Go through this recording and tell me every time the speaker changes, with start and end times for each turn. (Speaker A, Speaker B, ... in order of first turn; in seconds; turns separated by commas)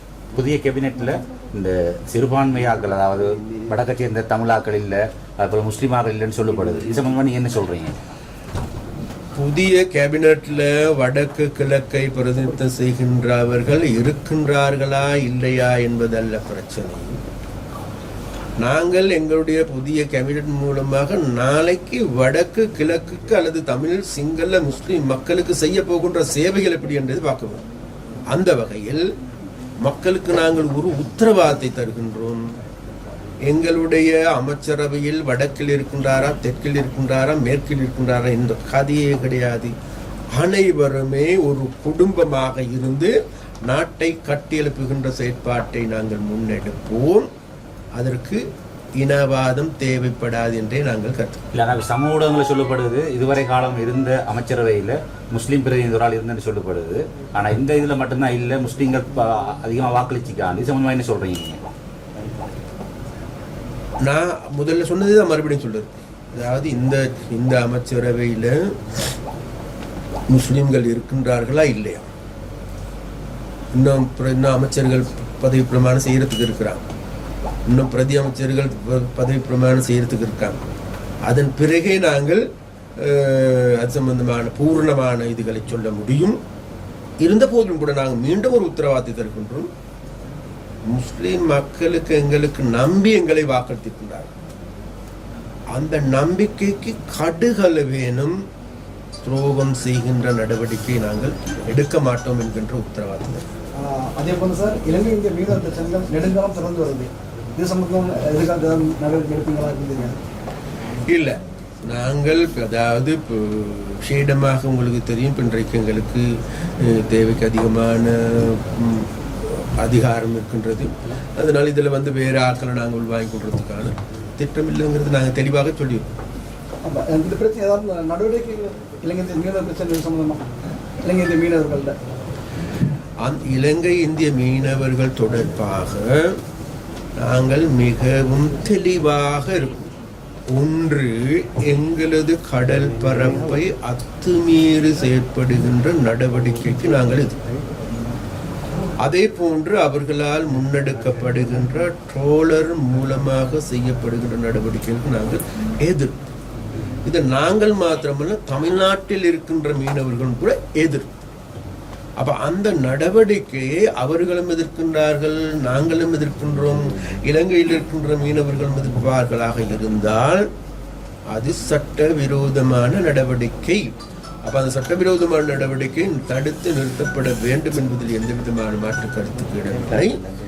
Speaker A: 0.3-8.0, Speaker B: 9.3-17.2, Speaker B: 18.6-27.6, Speaker B: 28.3-29.0, Speaker B: 29.8-32.4, Speaker B: 33.5-39.7, Speaker B: 40.3-43.1, Speaker B: 43.7-47.3, Speaker B: 48.0-48.4, Speaker B: 49.0-51.5, Speaker A: 51.5-61.6, Speaker B: 64.0-69.0, Speaker B: 70.3-72.1, Speaker B: 73.7-76.8, Speaker B: 77.7-80.7, Speaker B: 81.2-82.4, Speaker B: 83.0-86.4, Speaker B: 87.2-89.7, Speaker B: 90.9-94.3, Speaker B: 95.7-98.3, Speaker B: 99.2-103.4, Speaker C: 103.8-110.2, Speaker B: 111.1-126.1, Speaker C: 126.8-130.5, Speaker C: 131.0-131.9, Speaker B: 133.2-136.4, Speaker B: 137.2-139.9, Speaker B: 140.5-147.4, Speaker B: 149.0-156.2, Speaker B: 157.0-161.1, Speaker B: 162.2-170.4, Speaker B: 171.3-180.2